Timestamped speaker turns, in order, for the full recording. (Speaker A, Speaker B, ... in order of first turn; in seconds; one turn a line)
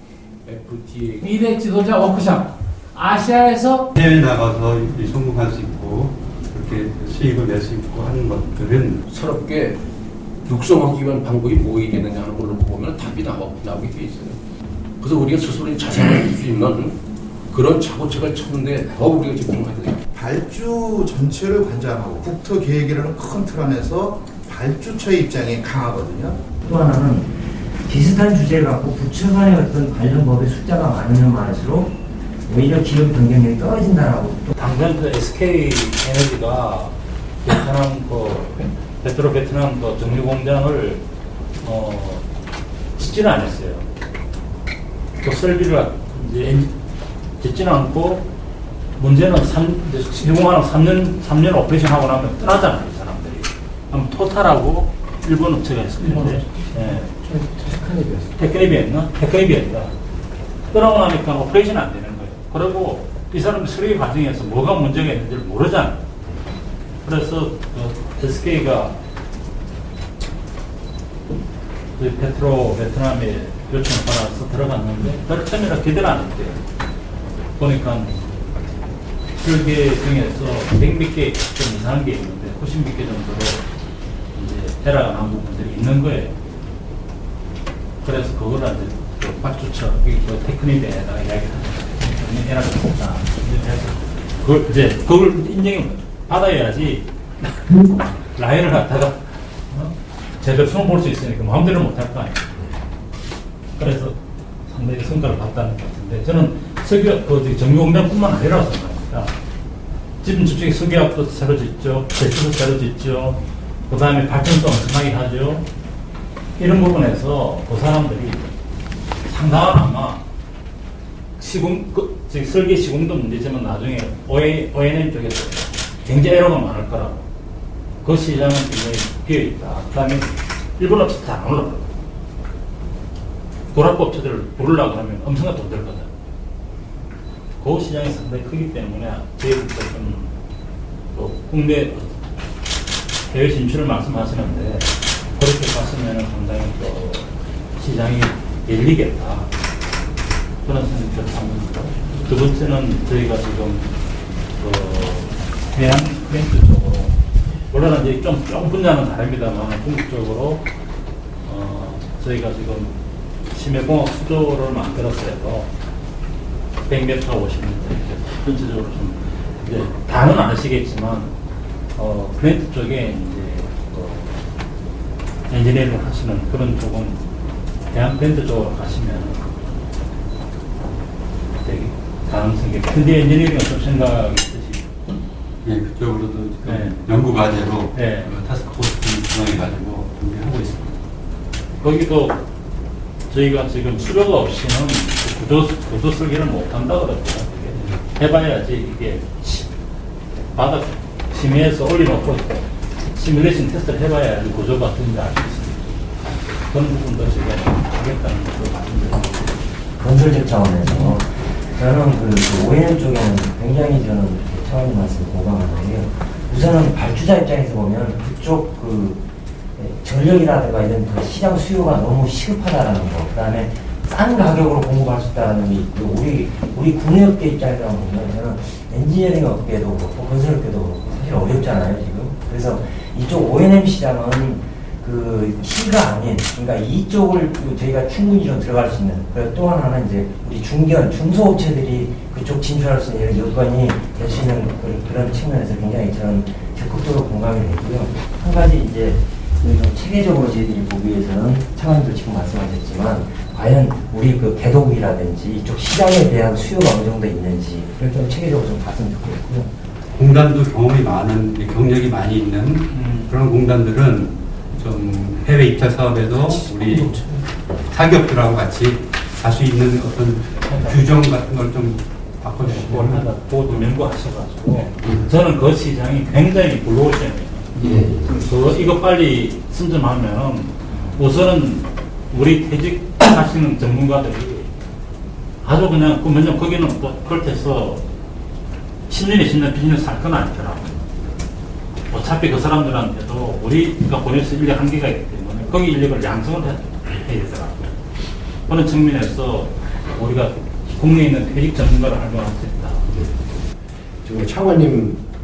Speaker A: 0.5-1.3
Speaker B: 1.2-3.9
Speaker C: 4.0-9.0
Speaker A: 9.0-9.8
Speaker A: 10.5-14.4
Speaker A: 15.0-17.0
Speaker A: 17.5-20.0
Speaker D: 20.1-26.4
Speaker E: 26.6-27.3
Speaker E: 27.9-31.9
Speaker E: 32.5-34.5
Speaker F: 34.5-41.0
Speaker F: 41.6-42.3
Speaker F: 43.0-43.9
Speaker F: 45.2-46.7
Speaker F: 47.4-48.3
Speaker F: 49.0-57.1
Speaker G: 57.2-58.3
Speaker F: 58.4-59.9
Speaker F: 60.7-66.0
Speaker F: 67.0-69.0
Speaker F: 72.0-76.6
Speaker F: 77.6-78.2
Speaker F: 79.4-83.6
Speaker F: 84.3-86.3
Speaker F: 88.0-102.5
Speaker F: 103.8-109.3
Speaker F: 110.2-115.6
Speaker F: 116.6-118.5
Speaker F: 119.2-120.2
Speaker F: 121.4-127.2
Speaker F: 128.0-131.9
Speaker F: 133.7-136.1
Speaker F: 137.6-140.3
Speaker F: 141.1-142.1
Speaker F: 143.3-149.5
Speaker F: 150.6-153.9
Speaker F: 154.6-157.2
Speaker F: 157.7-160.6
Speaker F: 161.4-162.9
Speaker F: 163.5-165.7
Speaker F: 166.9-171.3
Speaker F: 171.9-174.4
Speaker F: 175.5-177.2
Speaker F: 177.9-179.6
Speaker F: 181.6-185.2
Speaker C: 185.6-191.0
Speaker F: 186.6-187.0
Speaker F: 187.9-188.3
Speaker F: 191.8-192.4
Speaker F: 193.3-199.7
Speaker F: 200.5-205.8
Speaker F: 206.7-209.6
Speaker E: 210.0-219.2
Speaker E: 219.8-259.7
Speaker C: 260.1-273.2
Speaker F: 262.9-263.3
Speaker B: 266.9-267.3
Speaker F: 270.6-271.1
Speaker F: 272.6-284.7
Speaker F: 285.6-288.0
Speaker F: 289.1-291.0
Speaker F: 292.1-297.8
Speaker F: 298.7-303.1
Speaker G: 304.2-305.2